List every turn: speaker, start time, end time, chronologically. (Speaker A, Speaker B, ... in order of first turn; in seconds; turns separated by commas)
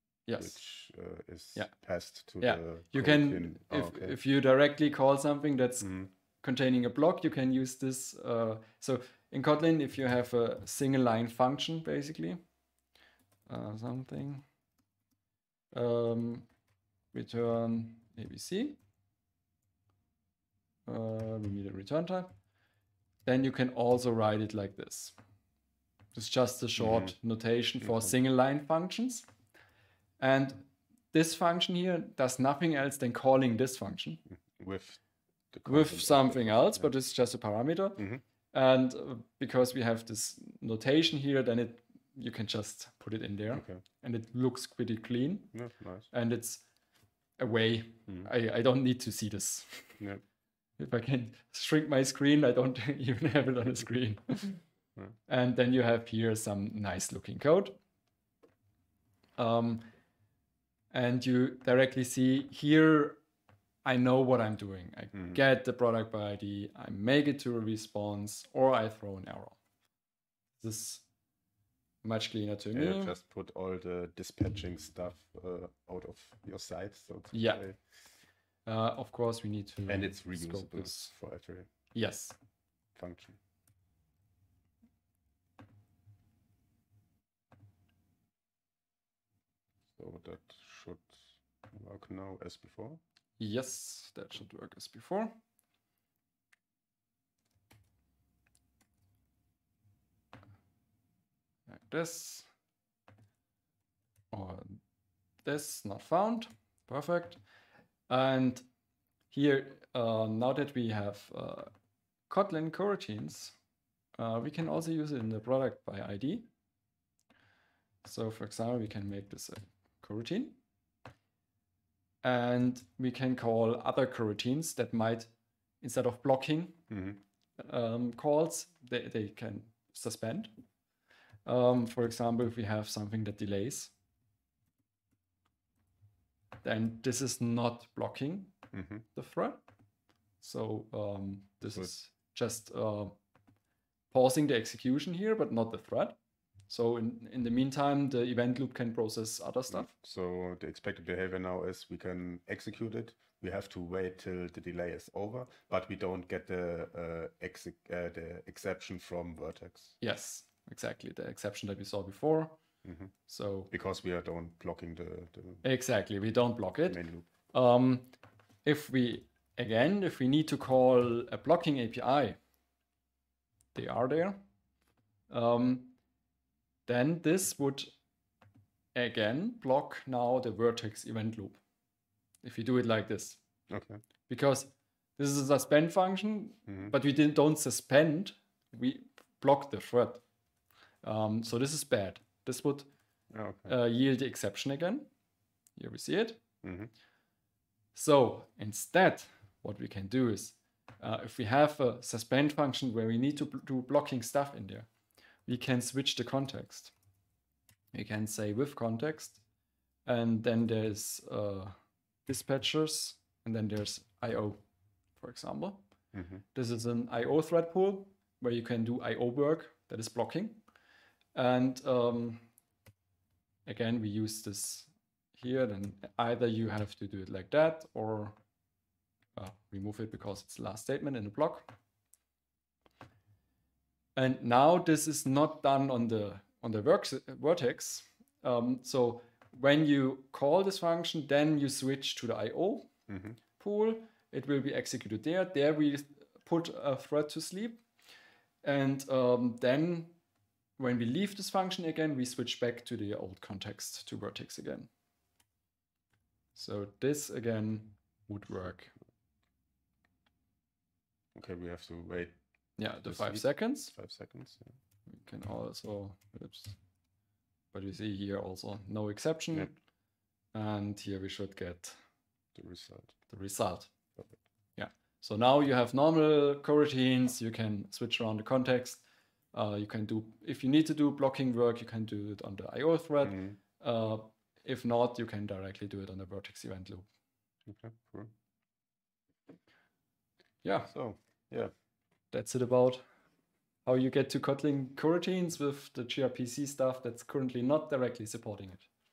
Speaker A: 0.3-0.6, Speaker B: 0.4-4.2, Speaker A: 1.5-12.4, Speaker B: 5.8-6.1, Speaker A: 13.5-14.4, Speaker A: 15.7-16.5, Speaker A: 17.1-18.8, Speaker A: 20.9-22.3, Speaker A: 23.2-25.1, Speaker A: 26.1-29.2, Speaker B: 26.8-27.1, Speaker B: 27.8-28.1, Speaker A: 30.2-34.2, Speaker B: 34.3-36.9, Speaker A: 35.6-45.5, Speaker B: 38.0-38.2, Speaker B: 43.5-43.8, Speaker B: 45.5-46.1, Speaker A: 46.1-46.6, Speaker A: 47.4-50.0, Speaker A: 50.8-54.6, Speaker A: 55.3-57.8, Speaker A: 59.4-59.8, Speaker A: 60.9-63.2, Speaker A: 63.8-69.6, Speaker A: 70.6-71.0, Speaker A: 72.0-73.1, Speaker B: 72.7-77.8, Speaker A: 77.3-77.6, Speaker A: 78.6-81.1, Speaker B: 79.9-81.7, Speaker A: 81.9-82.3, Speaker B: 82.9-83.4, Speaker B: 90.0-93.0, Speaker A: 93.4-95.4, Speaker A: 101.7-102.5, Speaker A: 104.3-104.8, Speaker A: 105.4-107.4, Speaker A: 108.1-108.7, Speaker A: 109.3-111.7, Speaker A: 112.3-113.5, Speaker A: 114.2-116.5, Speaker A: 118.0-120.6, Speaker A: 122.2-125.3, Speaker A: 125.8-126.8, Speaker B: 126.9-127.2, Speaker A: 127.6-130.5, Speaker A: 131.4-133.9, Speaker A: 136.6-138.5, Speaker B: 138.7-139.1, Speaker A: 139.1-139.6, Speaker A: 140.4-143.2, Speaker B: 141.6-141.9, Speaker A: 144.1-146.2, Speaker A: 146.7-149.9, Speaker B: 149.7-160.0, Speaker A: 160.0-162.6, Speaker B: 162.8-163.1, Speaker A: 163.3-163.7, Speaker B: 163.7-165.6, Speaker A: 165.6-168.1, Speaker B: 166.9-167.3, Speaker A: 168.6-172.4, Speaker A: 173.7-174.4, Speaker A: 175.3-176.0, Speaker A: 176.8-177.9, Speaker A: 178.9-181.6, Speaker A: 182.4-183.4, Speaker B: 183.7-184.0, Speaker A: 184.3-190.2, Speaker B: 186.7-186.9, Speaker A: 191.0-192.9, Speaker B: 193.3-193.7, Speaker A: 193.7-195.1, Speaker A: 195.8-196.4, Speaker B: 196.6-196.9, Speaker A: 197.9-204.9, Speaker A: 205.4-206.9, Speaker A: 207.9-209.4, Speaker A: 210.1-211.7, Speaker A: 212.2-214.6, Speaker A: 215.2-215.8, Speaker B: 216.1-216.4, Speaker A: 216.5-220.6, Speaker A: 221.3-222.4, Speaker A: 223.7-228.4, Speaker A: 229.3-231.7, Speaker A: 234.2-242.9, Speaker B: 243.1-243.4, Speaker A: 243.6-247.8, Speaker A: 248.6-250.1, Speaker A: 250.8-254.9, Speaker A: 256.5-258.9, Speaker B: 261.3-264.7, Speaker A: 262.8-263.9, Speaker A: 265.1-266.8, Speaker A: 267.7-269.7, Speaker A: 270.5-272.0, Speaker B: 272.5-273.1, Speaker A: 273.3-273.9, Speaker A: 274.8-287.1, Speaker B: 283.2-283.6, Speaker B: 287.6-288.3, Speaker A: 290.6-290.9, Speaker B: 290.9-291.7, Speaker A: 292.3-293.1, Speaker A: 293.8-298.9